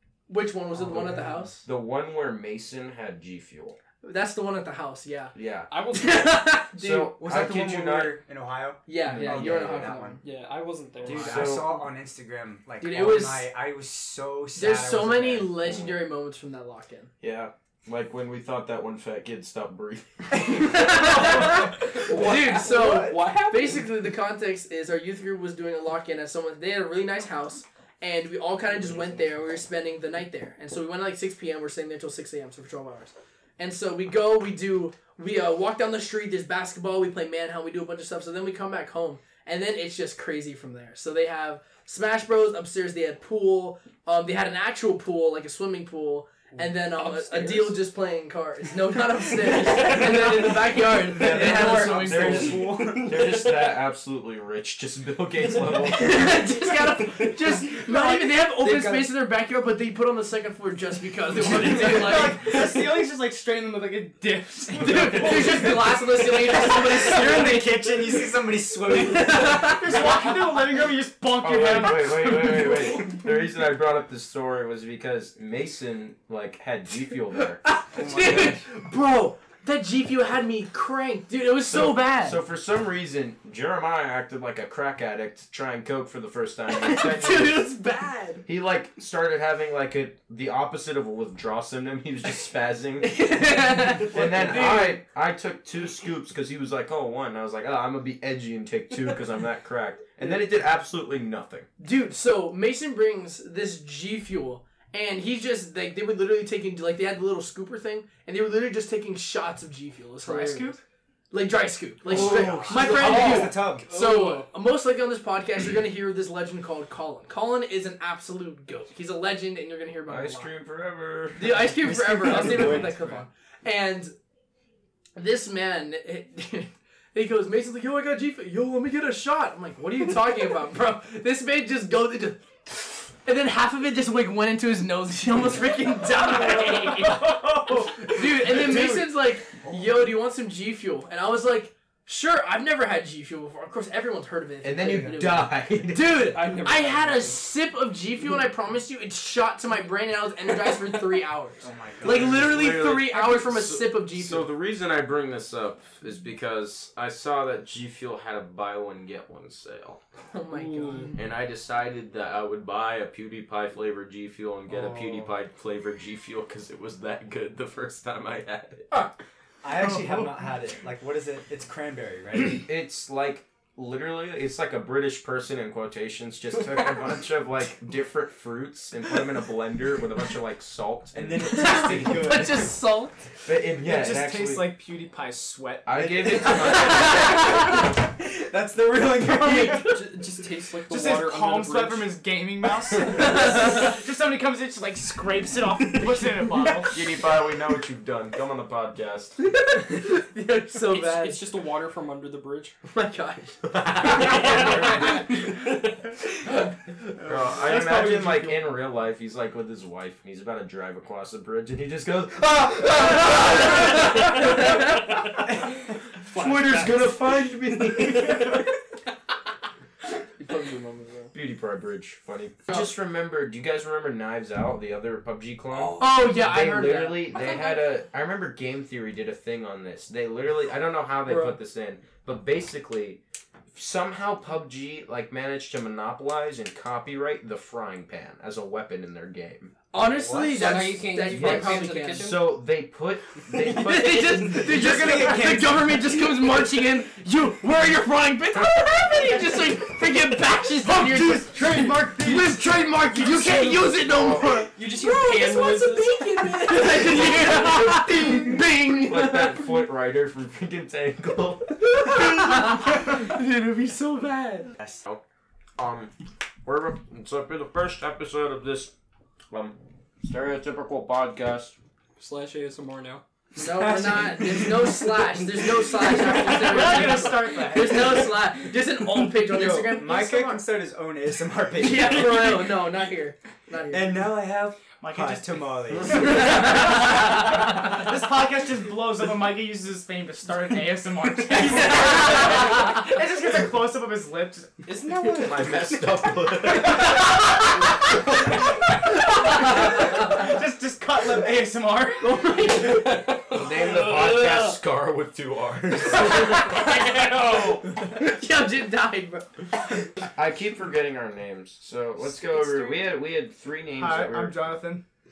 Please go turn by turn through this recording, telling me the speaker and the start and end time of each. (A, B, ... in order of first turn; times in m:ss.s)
0:00.3-0:01.6 A
0:00.9-0:03.8 B
0:04.0-0:05.3 A
0:05.3-0:05.7 B
0:05.7-0:06.4 C
0:05.9-0:07.1 A
0:06.7-0:08.2 B
0:07.2-0:10.2 D
0:08.9-0:10.2 A
0:09.0-0:10.0 B
0:10.2-0:11.8 C
0:11.0-0:11.8 B
0:11.0-0:15.6 D
0:12.8-0:13.5 A
0:14.6-0:17.1 A
0:15.6-0:16.0 B
0:17.2-0:20.8 B
0:20.4-0:52.6 A
0:20.8-0:23.9 C
0:46.6-0:47.8 C
0:49.4-0:50.6 C
0:50.9-0:56.5 B
0:51.0-0:53.3 D
0:52.7-0:53.8 C
0:55.9-1:02.6 A
0:56.1-0:56.8 C
0:57.8-0:59.1 C
1:01.4-1:06.2 E
1:04.7-1:07.8 A
1:06.5-1:09.6 D
1:08.9-1:10.6 A
1:09.4-1:13.2 E
1:11.3-1:17.6 B
1:17.6-1:22.4 A
1:17.9-1:18.6 D
1:21.7-1:27.7 B
1:26.7-1:28.4 A
1:28.5-1:33.3 B
1:33.0-1:35.0 A
1:34.0-1:41.7 B
1:41.8-1:50.8 A
1:50.4-1:50.7 E
1:51.3-2:00.5 A
1:52.1-1:53.8 D
1:52.1-1:52.8 B
1:52.8-1:54.4 C
2:00.1-2:01.8 B
2:01.4-2:04.1 A
2:01.8-2:03.0 D
2:02.4-2:03.2 B
2:05.2-2:34.5 A
2:17.8-2:19.1 B
2:24.6-2:26.2 B
2:26.3-2:27.4 C
2:31.6-2:32.6 D
2:32.0-2:40.0 B
2:40.3-2:41.2 A
2:40.6-2:41.1 C
2:41.1-2:48.9 B
2:44.7-2:45.3 D
2:49.6-2:52.6 D
2:52.4-3:02.4 B
3:01.1-3:02.7 D
3:01.5-3:03.2 A
3:03.4-3:04.8 B
3:03.8-3:06.3 E
3:05.9-3:07.6 B
3:05.9-3:10.0 D
3:09.4-3:09.8 E
3:09.6-3:12.2 C
3:10.9-3:17.2 E
3:13.0-3:14.0 A
3:16.6-3:19.4 B
3:19.4-3:21.4 A
3:20.9-3:22.8 C
3:22.8-3:25.5 A
3:23.6-3:25.4 B
3:24.0-3:26.1 C
3:27.2-3:35.6 B
3:27.2-3:28.7 E
3:33.5-3:38.7 C
3:33.7-3:35.0 A
3:36.3-3:38.6 B
3:40.4-3:41.3 A
3:41.3-3:53.2 B
3:45.7-3:46.2 C
3:46.0-3:47.6 A
3:47.3-3:47.9 C
3:51.2-3:51.6 A
3:53.7-3:59.8 B
3:59.9-4:02.3 A
4:00.0-4:00.8 D
4:00.2-4:04.6 B
4:00.5-4:02.5 C
4:03.5-4:19.8 A
4:04.4-4:05.8 D
4:10.8-4:12.5 E
4:13.3-4:13.6 C
4:14.0-4:14.7 B
4:14.8-4:17.6 C
4:17.0-4:22.8 B
4:21.8-4:24.8 A
4:24.8-4:25.0 D
4:25.8-4:28.9 B
4:29.5-4:31.8 B
4:32.2-4:33.2 C
4:33.5-4:35.0 D
4:33.6-4:40.7 A
4:36.1-4:37.3 C
4:36.4-4:38.3 E
4:39.3-4:42.6 D
4:41.8-4:44.2 A
4:43.9-4:46.3 D
4:45.0-4:47.0 E
4:46.1-4:47.4 A
4:47.9-4:54.8 E
4:51.5-4:53.0 C
4:52.1-4:52.6 A
4:54.8-4:57.2 C
4:55.4-4:57.5 B
4:59.6-5:00.2 A
4:59.6-5:02.4 E
5:02.2-5:04.7 A
5:02.5-5:04.4 C
5:03.5-5:06.8 B
5:06.2-5:10.1 A
5:06.5-5:07.9 C
5:10.2-5:14.7 B
5:12.2-5:13.1 A
5:14.0-5:15.0 E